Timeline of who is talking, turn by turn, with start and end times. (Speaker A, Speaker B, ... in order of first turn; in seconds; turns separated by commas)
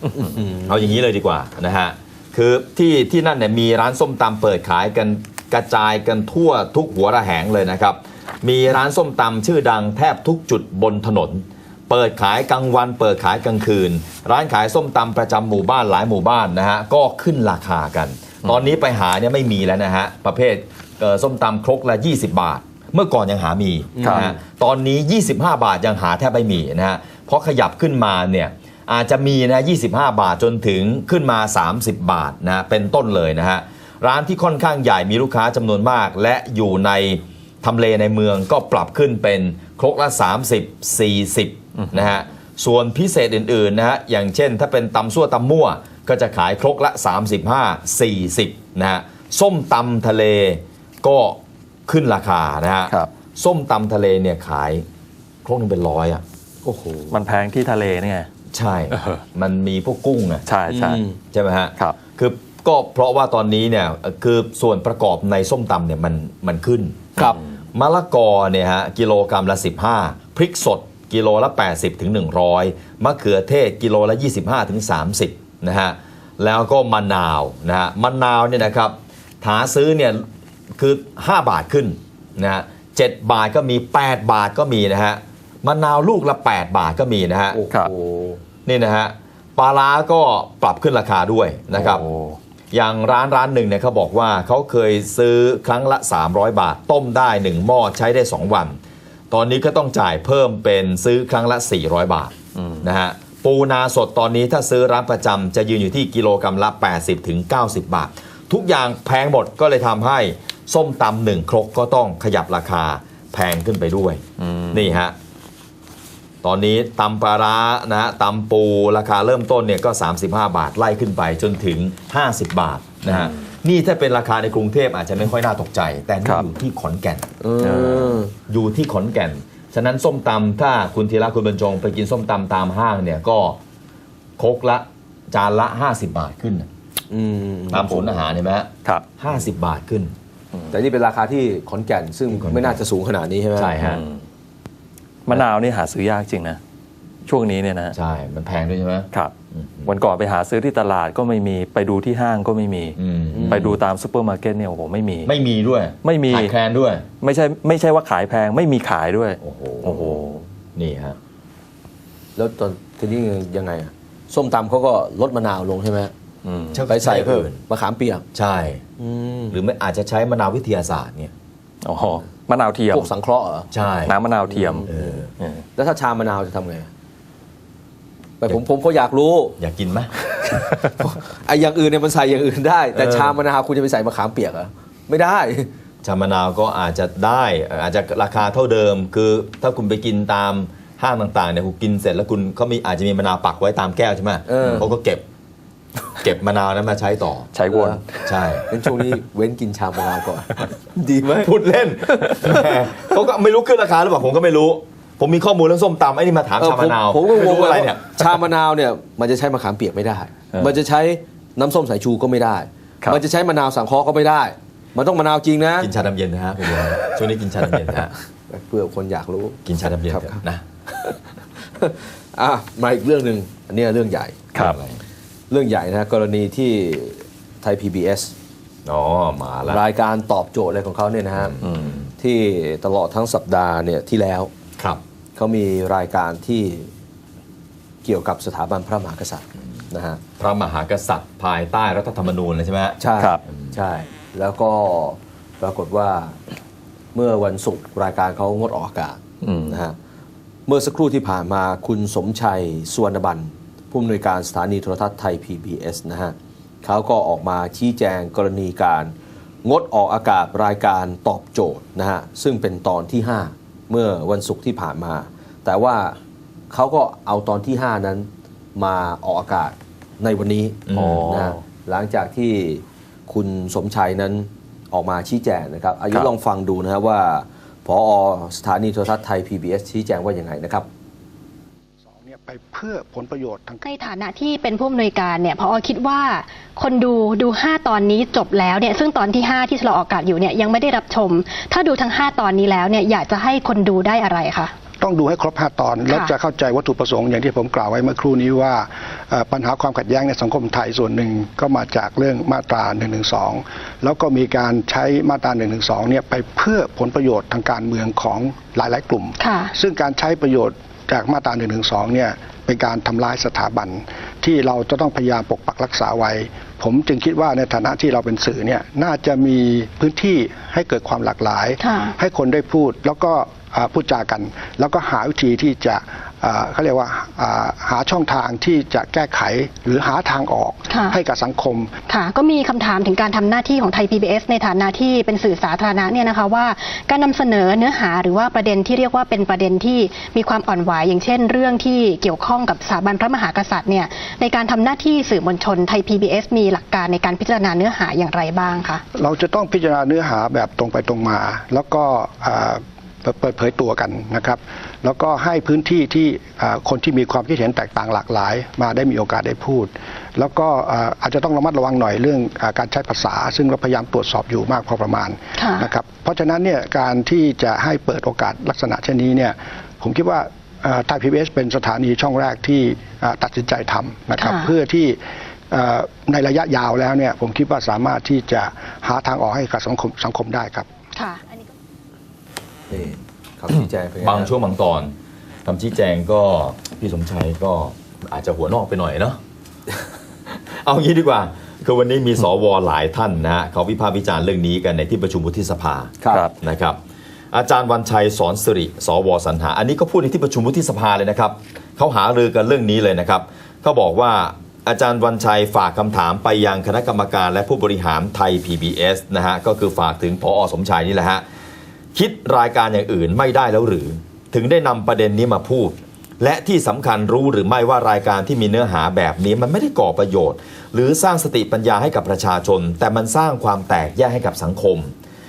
Speaker A: 0.2-0.8, Speaker B: 0.6-54.8, Speaker A: 24.0-24.4, Speaker C: 24.0-24.3, Speaker C: 41.8-42.1, Speaker B: 55.4-56.2, Speaker A: 56.6-57.2, Speaker C: 57.1-58.3, Speaker B: 58.5-60.5, Speaker C: 58.9-59.2, Speaker C: 60.5-61.0, Speaker A: 60.7-61.2, Speaker B: 61.3-80.2, Speaker B: 80.8-87.6, Speaker A: 87.5-88.4, Speaker B: 88.6-92.0, Speaker C: 91.7-92.4, Speaker B: 92.7-98.8, Speaker B: 99.3-115.1, Speaker C: 102.5-102.8, Speaker C: 114.4-115.0, Speaker B: 116.4-127.2, Speaker C: 123.1-123.4, Speaker A: 127.4-128.3, Speaker B: 128.0-133.6, Speaker B: 134.4-136.7, Speaker A: 137.1-138.2, Speaker B: 137.7-140.1, Speaker A: 140.7-143.8, Speaker B: 142.3-142.8, Speaker B: 143.5-144.0, Speaker C: 143.8-144.2, Speaker C: 145.2-146.6, Speaker C: 147.2-147.9, Speaker B: 147.9-149.9, Speaker C: 149.8-153.0, Speaker B: 152.9-153.8, Speaker A: 153.3-153.7, Speaker C: 153.5-155.3, Speaker B: 155.2-157.1, Speaker C: 156.0-156.5, Speaker C: 157.2-160.4, Speaker B: 159.4-160.2, Speaker B: 160.7-161.2, Speaker A: 162.3-166.1, Speaker C: 166.4-166.8, Speaker B: 166.7-167.6, Speaker A: 166.9-168.2, Speaker B: 168.3-168.8, Speaker A: 169.0-169.6, Speaker B: 169.5-171.3, Speaker C: 171.8-173.1, Speaker A: 172.9-173.7, Speaker B: 173.7-174.2, Speaker C: 174.1-174.9, Speaker A: 174.5-175.2, Speaker B: 174.8-175.3, Speaker C: 175.4-175.6, Speaker A: 175.8-176.9, Speaker A: 178.4-179.6, Speaker B: 179.6-180.1, Speaker A: 180.2-185.7, Speaker B: 182.9-183.4, Speaker B: 186.0-195.2, Speaker A: 194.5-194.9, Speaker B: 196.1-197.5, Speaker C: 197.5-198.2, Speaker A: 197.7-198.0, Speaker B: 198.2-198.7, Speaker A: 198.7-201.5, Speaker B: 201.3-208.4, Speaker A: 202.2-202.7, Speaker A: 206.6-215.9, Speaker B: 215.8-218.1, Speaker A: 218.5-220.4, Speaker B: 219.6-220.6, Speaker A: 221.0-224.4, Speaker B: 224.5-225.0, Speaker A: 225.5-228.3, Speaker B: 228.8-229.8, Speaker A: 229.7-231.6, Speaker B: 231.4-232.1, Speaker C: 231.6-231.9, Speaker A: 232.2-234.5, Speaker A: 235.3-236.9, Speaker A: 238.0-240.2, Speaker B: 240.4-243.0, Speaker A: 243.0-246.4, Speaker A: 247.1-249.9, Speaker C: 249.4-249.8, Speaker A: 250.7-266.2, Speaker A: 266.7-280.9, Speaker B: 270.9-271.3, Speaker C: 270.9-271.6, Speaker D: 282.0-283.8, Speaker E: 283.8-294.7, Speaker D: 295.0-331.9, Speaker E: 296.1-296.3, Speaker E: 309.4-309.7, Speaker E: 321.8-322.2, Speaker E: 330.9-331.2, Speaker E: 332.1-349.0, Speaker D: 349.1-375.2, Speaker E: 365.6-365.9, Speaker E: 374.3-374.8, Speaker D: 375.7-380.9, Speaker E: 381.1-381.6, Speaker A: 382.9-384.5, Speaker B: 384.2-385.1, Speaker B: 385.6-389.4, Speaker B: 390.4-397.0, Speaker B: 397.5-411.4, Speaker B: 412.1-425.1